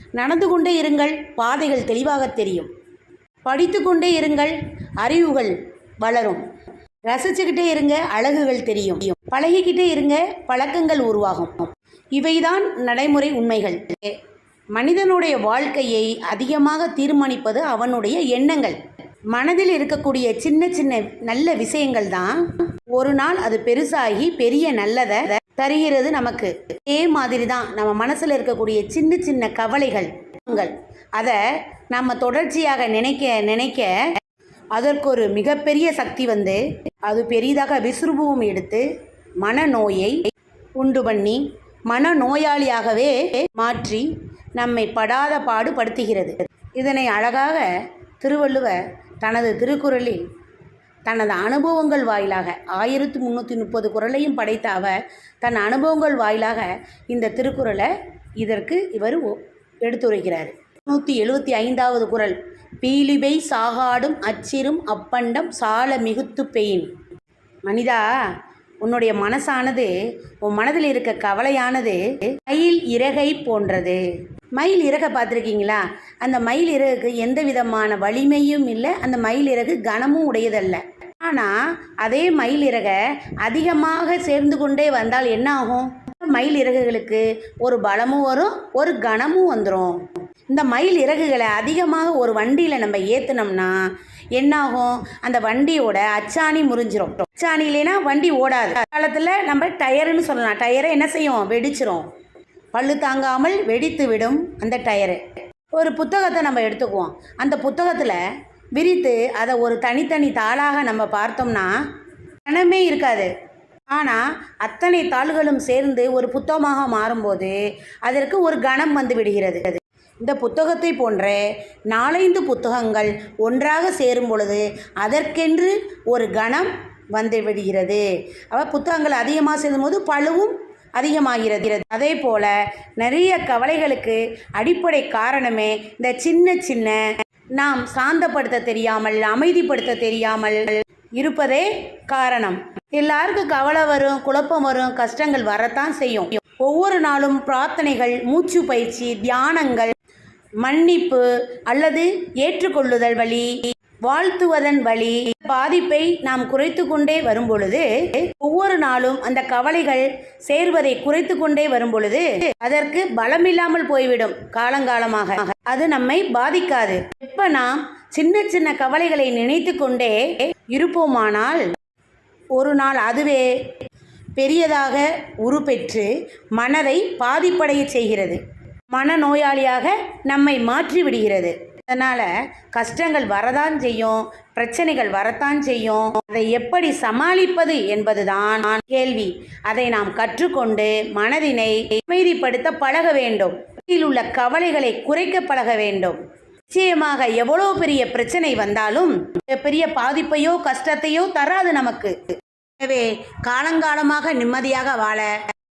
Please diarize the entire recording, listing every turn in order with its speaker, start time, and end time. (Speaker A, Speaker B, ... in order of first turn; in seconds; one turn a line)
Speaker A: 0.2-2.7
Speaker A: 3.5-6.4
Speaker A: 7.1-14.2
Speaker A: 14.8-18.8
Speaker A: 19.3-34.1
Speaker A: 34.7-38.9
Speaker A: 39.4-40.2
Speaker A: 40.8-50.2
Speaker A: 51.1-66.9
Speaker A: 67.7-68.1
Speaker A: 68.8-74.0
Speaker A: 74.6-93.8
Speaker A: 94.4-102.1
Speaker A: 102.7-105.2
Speaker A: 105.8-108.2
Speaker A: 108.8-111.7
Speaker A: 112.5-113.3
Speaker A: 113.9-149.9
Speaker A: 150.6-171.7
Speaker A: 172.6-173.6
Speaker A: 174.4-205.4